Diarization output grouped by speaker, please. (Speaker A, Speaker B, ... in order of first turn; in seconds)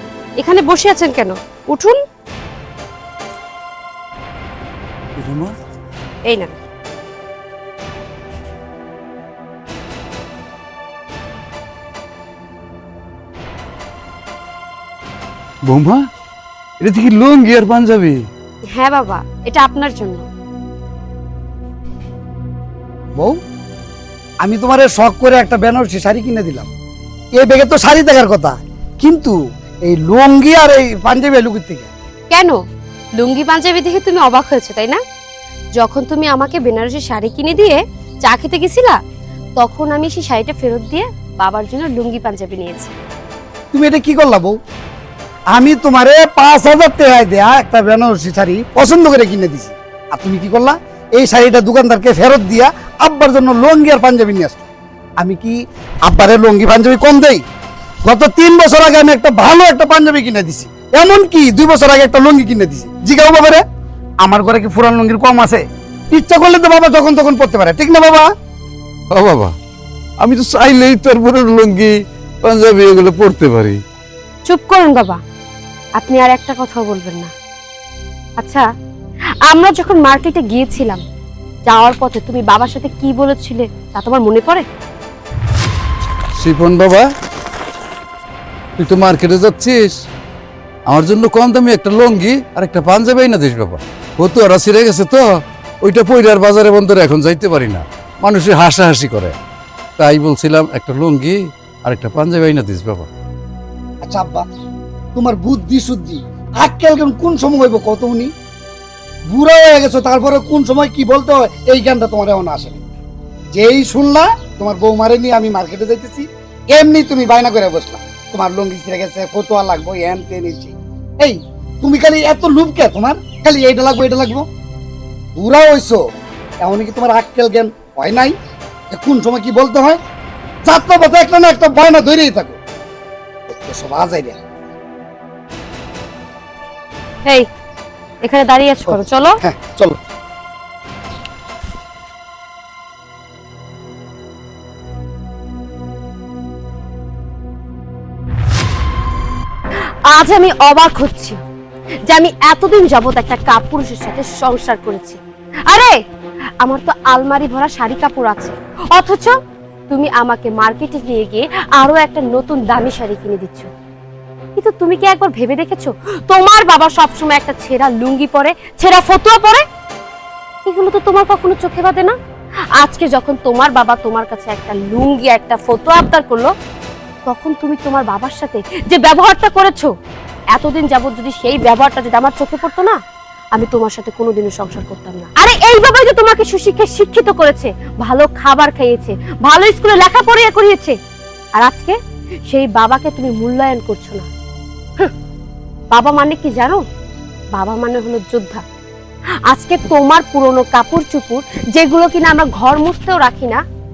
Speaker A: 0.4-2.0, 6.2-6.5, 18.7-20.2, 32.3-32.6, 33.2-35.0, 35.8-39.0, 39.6-42.9, 74.5-75.2, 76.0-77.3, 78.4-78.6, 79.5-81.0, 81.7-84.6, 138.2-139.4, 150.1-151.4, 152.1-155.9, 156.6-159.3, 159.9-163.7, 164.6-169.6, 170.6-172.2, 172.8-176.5, 177.3-179.9, 180.5-183.0, 183.5-190.9, 191.6-194.3, 195.9-196.8, 197.5-198.6, 199.5-203.6
Speaker B: 5.1-5.5, 15.7-16.0, 16.8-18.2, 69.1-69.5, 70.2-71.9, 72.4-73.8, 86.3-87.0, 88.8-89.9, 90.9-95.2, 95.8-99.3, 100.0-103.1
Speaker C: 24.4-26.7, 27.4-31.9, 43.7-44.5, 45.5-54.7, 55.2-57.4, 58.0-63.6, 64.2-68.3, 104.0-104.5, 105.1-108.3, 109.3-112.8, 113.5-124.5, 125.3-126.0, 126.6-128.3, 128.9-130.0, 130.6-132.6, 133.5-134.4, 138.9-140.0